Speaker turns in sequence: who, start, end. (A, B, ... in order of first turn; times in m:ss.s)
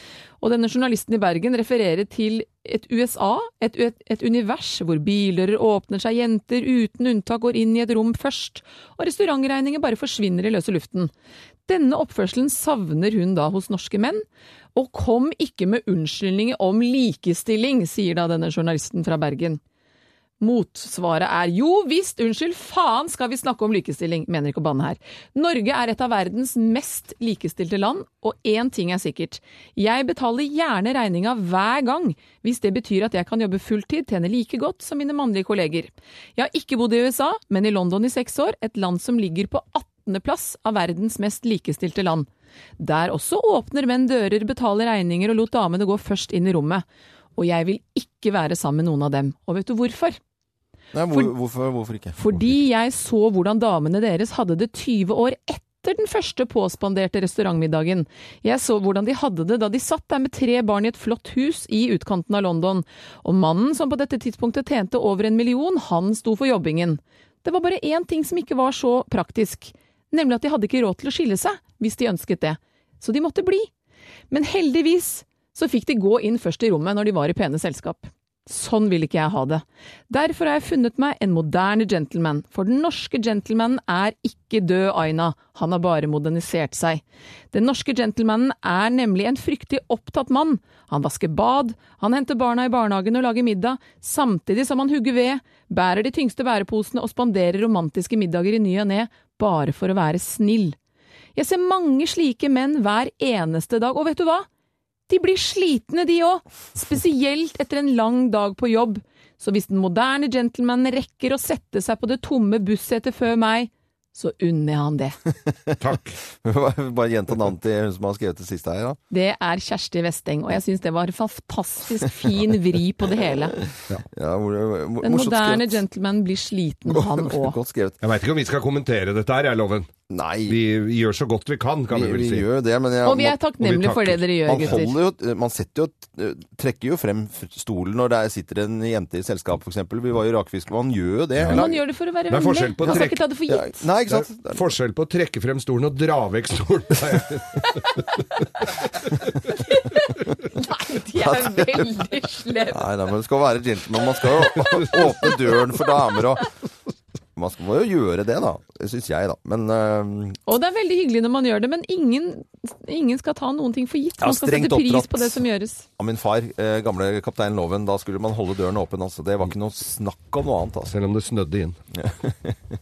0:00.4-0:11.1 A
0:11.7-0:14.2 A
0:14.7-0:19.6 A
0:20.4-0:42.3 A
0:42.8-0:46.8 A
0:47.4-0:50.2 A
0:50.9-0:52.6 B
0:52.1-1:13.7 A
1:14.3-1:40.8 A
1:41.4-1:44.5 A
1:45.1-1:55.2 A
1:55.5-1:55.8 B
1:55.8-1:56.2 C
1:56.3-1:59.0 B
1:59.1-2:03.6 A
2:03.6-2:05.8 B
2:05.0-2:07.6 A
2:06.9-2:08.0 B
2:08.0-2:09.9 C
2:10.1-2:10.6 B
2:10.5-2:12.5 C
2:11.9-2:13.4 B
2:13.0-2:15.0 A
2:13.6-2:14.8 C
2:14.4-2:21.8 B
2:21.4-2:21.7 C
2:21.5-2:23.8 A
2:22.3-2:23.3 C
2:22.8-2:24.6 B
2:24.1-2:28.1 C
2:28.6-2:29.0 C
2:29.5-2:32.9 A
2:31.2-2:31.9 B
2:32.7-2:36.5 B
2:34.6-2:35.3 C
2:37.3-2:40.4 B
2:40.5-2:45.8 A
2:44.2-2:45.4 B
2:46.0-2:50.9 B
2:50.9-2:51.8 C
2:52.0-2:52.6 B